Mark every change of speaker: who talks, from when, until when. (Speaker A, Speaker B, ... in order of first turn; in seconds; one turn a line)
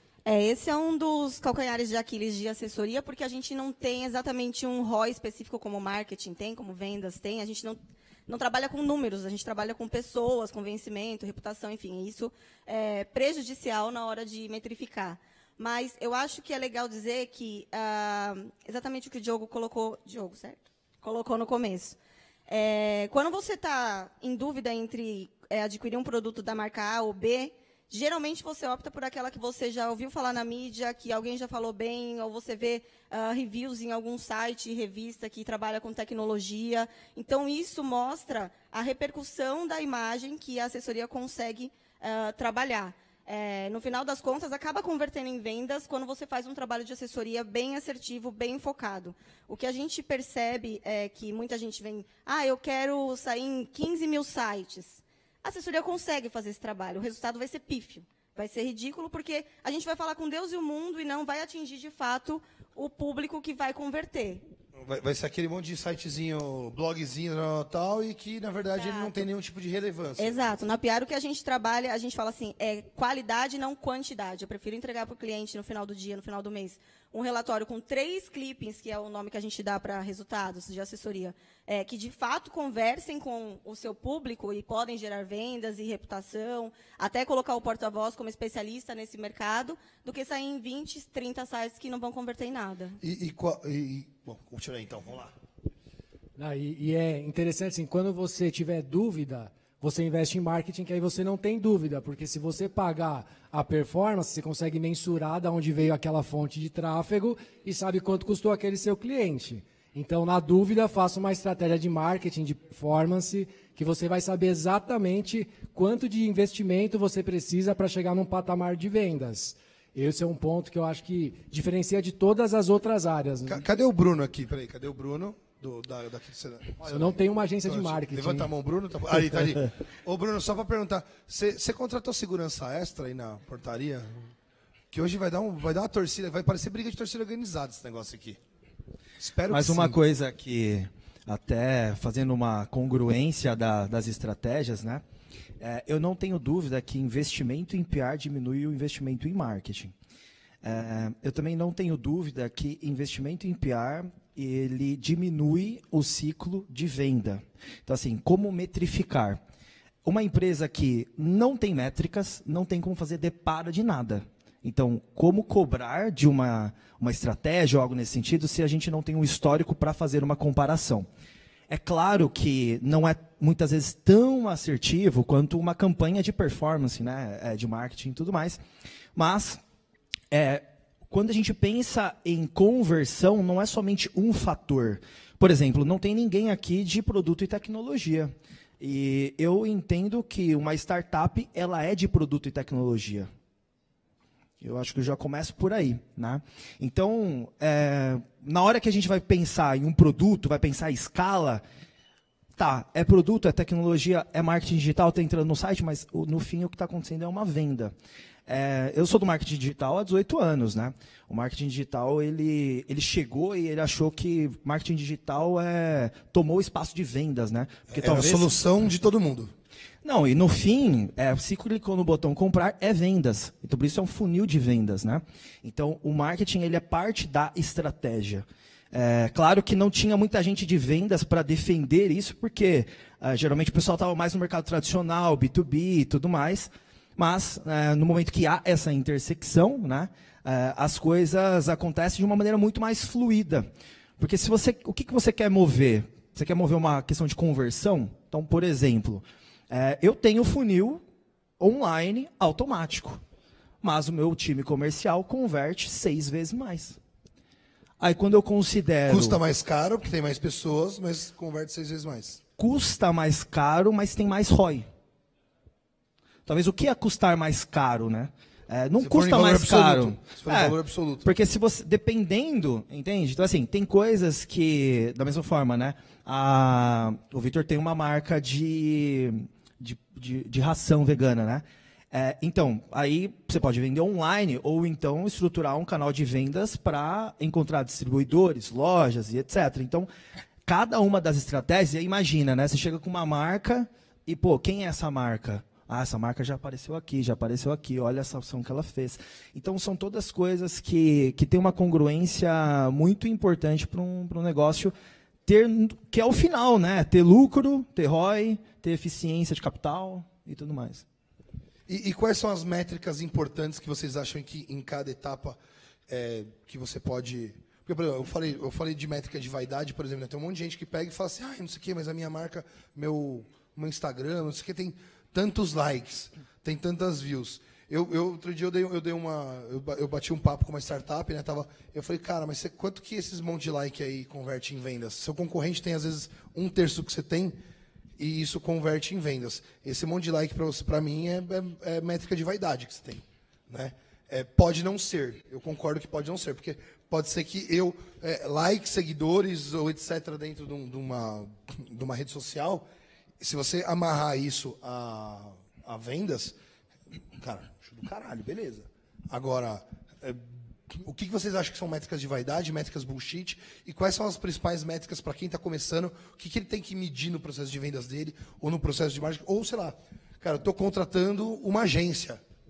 Speaker A: 0.2-22.0
Speaker A: 22.5-64.4
Speaker B: 64.8-70.4
Speaker A: 68.7-69.3
Speaker A: 70.2-93.0
Speaker B: 93.0-95.3
Speaker C: 96.4-123.6
Speaker B: 123.5-127.2
Speaker C: 126.8-128.5
Speaker B: 127.7-134.2
Speaker B: 134.9-138.4
Speaker B: 139.2-140.0
Speaker D: 139.5-145.0
Speaker D: 145.6-149.9
Speaker D: 150.6-159.4
Speaker D: 160.0-171.1
Speaker D: 171.7-178.6
Speaker D: 179.1-179.6
Speaker D: 180.3-193.3
Speaker D: 194.6-201.6
Speaker D: 202.6-207.9
Speaker D: 208.5-218.5
Speaker B: 217.9-219.5
Speaker D: 220.0-251.0
Speaker D: 251.6-253.2
Speaker D: 253.8-257.0
Speaker D: 258.0-259.4
Speaker B: 259.1-262.4
Speaker D: 262.6-264.9
Speaker D: 266.5-290.1
Speaker B: 269.0-271.3
Speaker D: 290.6-304.9
Speaker D: 305.4-311.1
Speaker B: 311.9-315.6
Speaker B: 316.1-337.6
Speaker B: 338.2-352.9
Speaker B: 353.4-356.6
Speaker B: 357.4-372.4